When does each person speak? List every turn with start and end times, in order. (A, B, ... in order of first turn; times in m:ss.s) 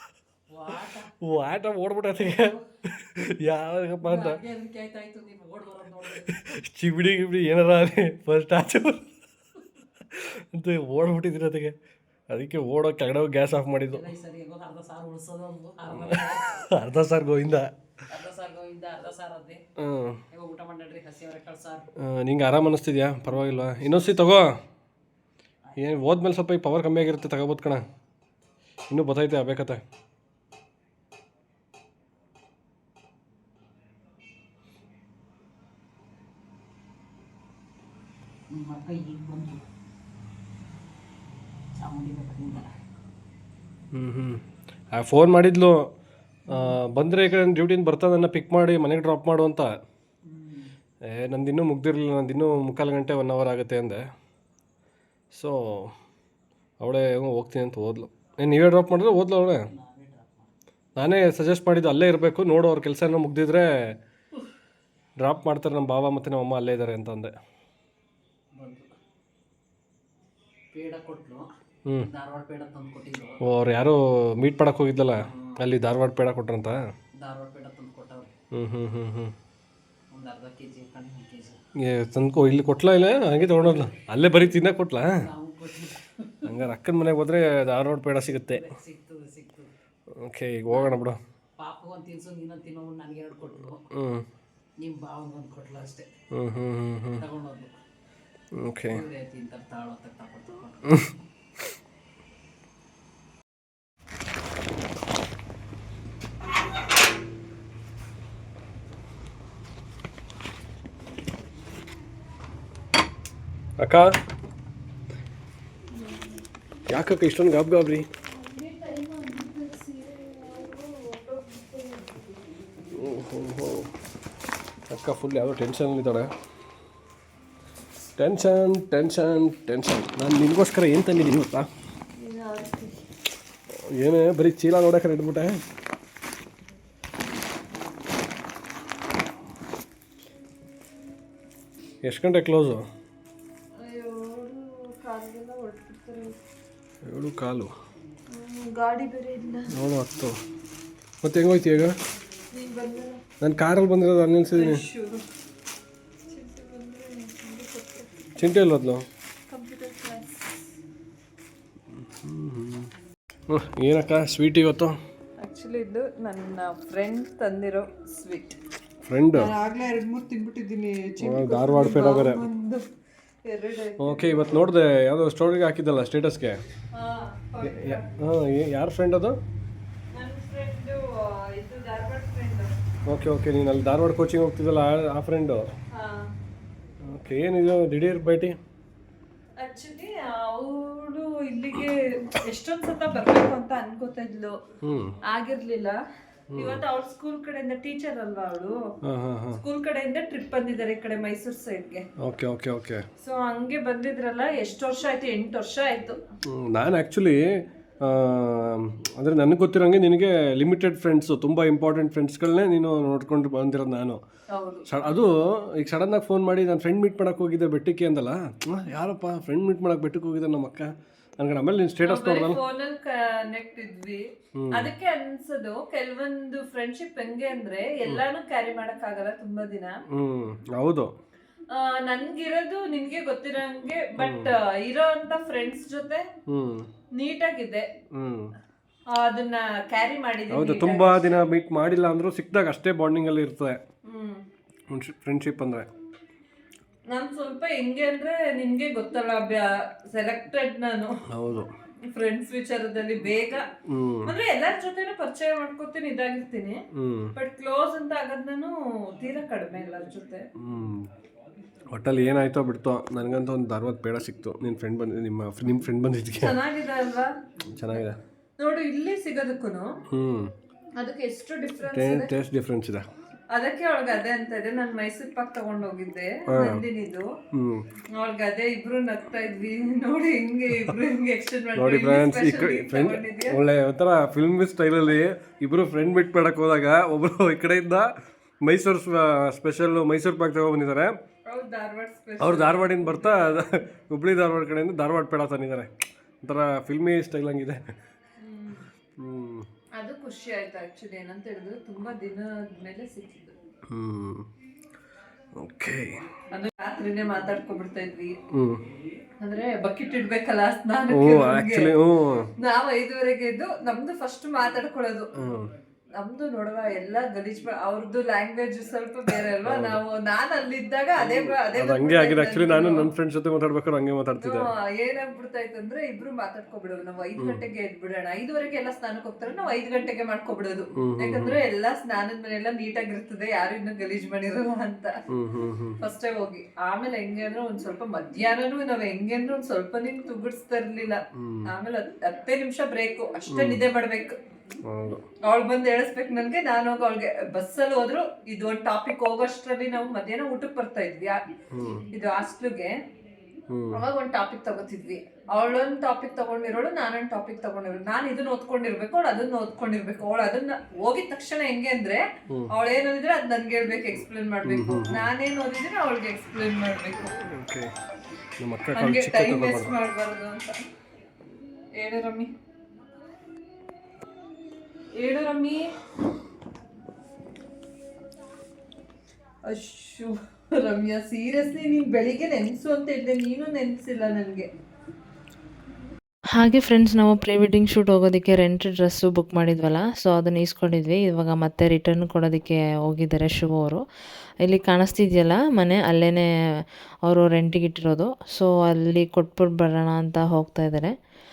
0:00.5-0:01.1 A
0:01.2-0:04.4 B
0:04.0-0:06.4 A
0:06.3-0:09.1 B
0:10.1-0:11.7 B
0:12.3-0:14.0 B
0:13.9-0:16.6 A
0:16.0-0:17.7 B
0:18.1-0:19.6 A
0:19.8-0:20.2 B
0:20.3-0:21.8 A
0:22.0-0:24.5 B
0:23.4-0:24.1 A
0:25.6-0:25.9 A
0:25.8-0:27.8 B
0:28.9-0:29.8 B
0:38.5-0:39.6 A
0:41.8-0:42.7 A
0:43.9-0:44.4 B
0:44.9-0:45.8 B
0:46.5-0:49.7 B
0:46.5-0:46.7 A
0:50.2-0:50.7 A
0:51.1-0:54.0 B
0:55.3-0:55.9 B
0:56.8-0:59.6 B
0:59.7-1:00.5 A
1:01.0-1:04.0 B
1:05.2-1:07.3 B
1:08.5-1:08.9 A
1:10.7-1:11.5 A
1:12.0-1:13.4 A
1:13.4-1:16.8 B
1:15.3-1:15.6 A
1:17.2-1:18.3 A
1:18.5-1:19.3 B
1:20.1-1:21.6 A
1:21.8-1:25.2 B
1:24.6-1:26.6 A
1:26.4-1:28.6 B
1:28.5-1:29.7 A
1:30.2-1:31.2 B
1:30.7-1:31.0 A
1:31.6-1:33.8 A
1:33.9-1:34.2 B
1:34.8-1:36.1 A
1:36.3-1:37.2 B
1:37.2-1:37.7 A
1:38.5-1:39.0 B
1:38.9-1:41.3 A
1:53.8-1:54.1 B
1:56.9-1:58.0 B
1:58.5-2:02.2 C
2:02.9-2:03.9 B
2:04.9-2:06.3 B
2:08.2-2:11.7 B
2:12.2-2:12.9 C
2:13.9-2:15.6 B
2:22.0-2:22.8 B
2:23.8-2:26.3 C
2:27.0-2:27.7 B
2:28.3-2:29.7 C
2:29.7-2:30.4 B
2:31.2-2:31.9 B
2:32.5-2:33.2 C
2:33.4-2:34.8 B
2:34.6-2:35.2 C
2:36.3-2:38.1 C
2:38.4-2:39.0 B
2:39.5-2:40.5 C
2:42.0-2:42.9 B
2:43.5-2:44.9 B
2:45.4-2:48.6 C
2:49.0-2:49.5 B
2:49.4-2:52.8 C
2:51.2-2:52.4 B
2:53.5-2:54.2 C
2:54.0-2:56.6 B
2:57.0-2:57.9 C
2:57.6-2:59.4 B
3:00.2-3:01.0 C
3:01.6-3:02.7 C
3:03.1-3:05.6 B
3:07.0-3:08.6 B
3:09.6-3:14.5 C
3:14.8-3:15.2 B
3:15.3-3:15.9 C
3:16.5-3:16.8 B
3:16.6-3:18.7 C
3:19.0-3:19.6 B
3:19.6-3:22.0 C
3:22.2-3:23.0 B
3:23.2-3:26.1 C
3:26.4-3:27.4 B
3:28.0-3:34.2 B
3:34.6-3:34.8 C
3:34.9-3:40.9 B
3:41.4-3:42.6 B
3:42.1-3:44.2 C
3:44.6-3:44.9 B
3:44.8-3:49.9 C
3:50.1-3:51.1 B
3:51.7-3:56.2 C
3:54.2-3:54.5 B
3:56.5-3:56.9 B
3:57.2-3:57.8 C
3:58.1-3:58.5 B
3:59.1-4:01.2 C
4:00.5-4:03.8 B
4:04.0-4:04.4 C
4:04.9-4:05.9 B
4:07.1-4:11.1 C
4:11.3-4:11.7 B
4:12.1-4:13.6 C
4:13.9-4:14.4 B
4:14.3-4:16.8 C
4:16.9-4:17.3 B
4:17.4-4:20.4 C
4:20.6-4:21.1 B
4:21.9-4:26.6 B
4:26.4-4:27.3 C
4:27.7-4:28.2 B
4:28.6-4:29.9 C
4:30.1-4:30.5 B
4:31.0-4:32.3 C
4:31.9-4:33.0 B
4:33.5-4:37.3 C
4:36.5-4:36.8 B
4:37.5-4:37.8 B
4:38.2-4:43.6 C
4:41.7-4:48.1 B
4:48.6-4:51.1 B
4:51.5-4:53.2 C
4:52.4-4:55.9 B
4:56.4-4:57.9 B
4:58.4-4:58.8 C
4:59.2-4:59.6 B
5:00.0-5:03.5 C
5:03.9-5:04.4 B
5:05.6-5:06.1 B
5:06.5-5:08.4 C
5:08.5-5:08.8 B
5:09.4-5:11.9 C
5:11.1-5:12.5 B
5:12.6-5:15.3 C
5:15.4-5:15.7 B
5:16.2-5:23.0 C
5:19.3-5:20.0 B
5:21.2-5:24.7 B
5:24.4-5:35.1 C
5:27.4-5:27.6 B
5:31.0-5:31.6 B
5:35.3-5:36.0 B
5:36.0-5:44.3 C
5:41.3-5:41.7 B
5:43.5-5:43.8 B
5:44.9-5:45.2 B
5:45.5-5:51.4 C
5:51.7-5:52.0 B
5:52.2-5:52.9 C
5:53.7-5:54.0 B
5:54.0-6:02.2 C
6:02.8-6:07.2 C
6:04.6-6:05.3 B
6:07.4-6:07.9 B
6:08.6-6:10.0 B
6:09.0-6:10.7 C
6:12.0-6:12.5 C
6:15.2-6:15.8 C
6:19.7-6:24.7 C
6:26.5-6:34.0 D
6:34.6-6:36.5 D
6:37.2-6:41.1 D